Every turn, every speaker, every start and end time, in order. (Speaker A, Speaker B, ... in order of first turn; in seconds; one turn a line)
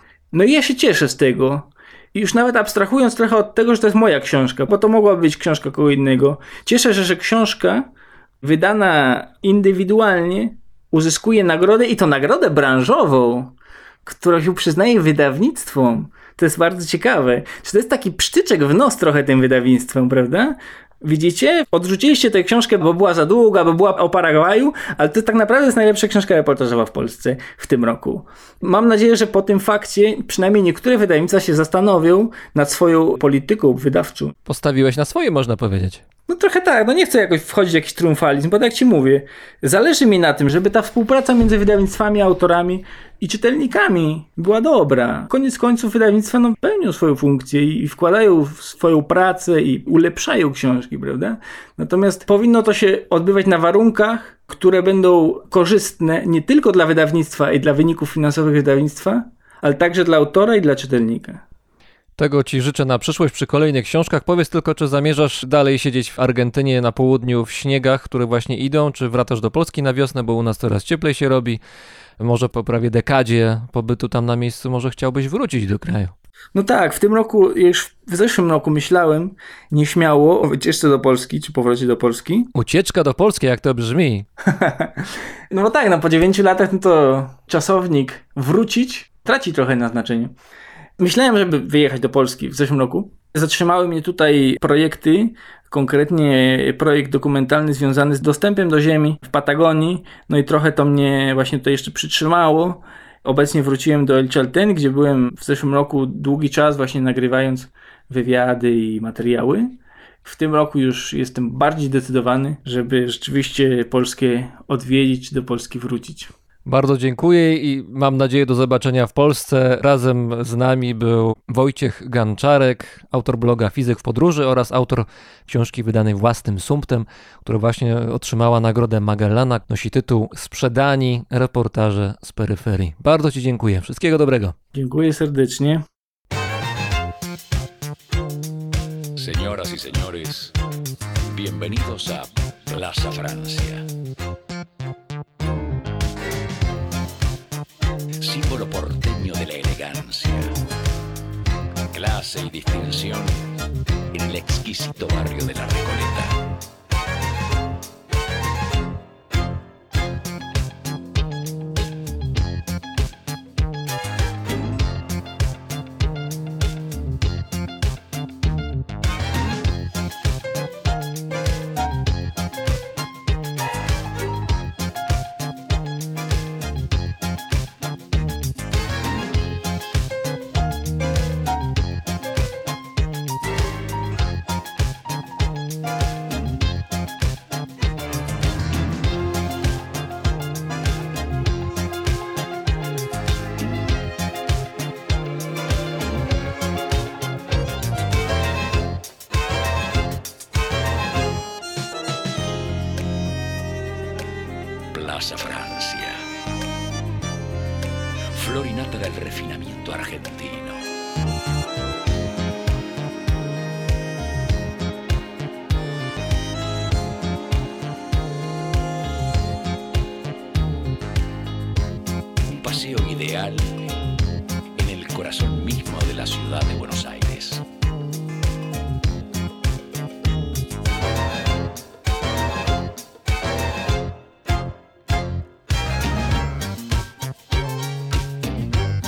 Speaker A: 0.3-7.9
Speaker A: 8.4-34.3
Speaker B: 34.5-36.0
Speaker A: 36.3-61.4
Speaker B: 62.2-71.6
Speaker B: 72.2-76.1
Speaker A: 76.5-82.5
Speaker B: 82.5-84.3
Speaker A: 84.5-90.3
Speaker A: 91.0-116.3
Speaker B: 116.7-134.6
Speaker A: 134.7-135.8
Speaker C: 139.2-140.6
Speaker C: 141.3-143.9
Speaker C: 148.2-150.5
Speaker C: 151.9-153.3
Speaker C: 154.1-156.3
Speaker C: 204.9-206.2
Speaker C: 208.3-210.8
Speaker C: 222.5-223.7
Speaker C: 224.8-227.6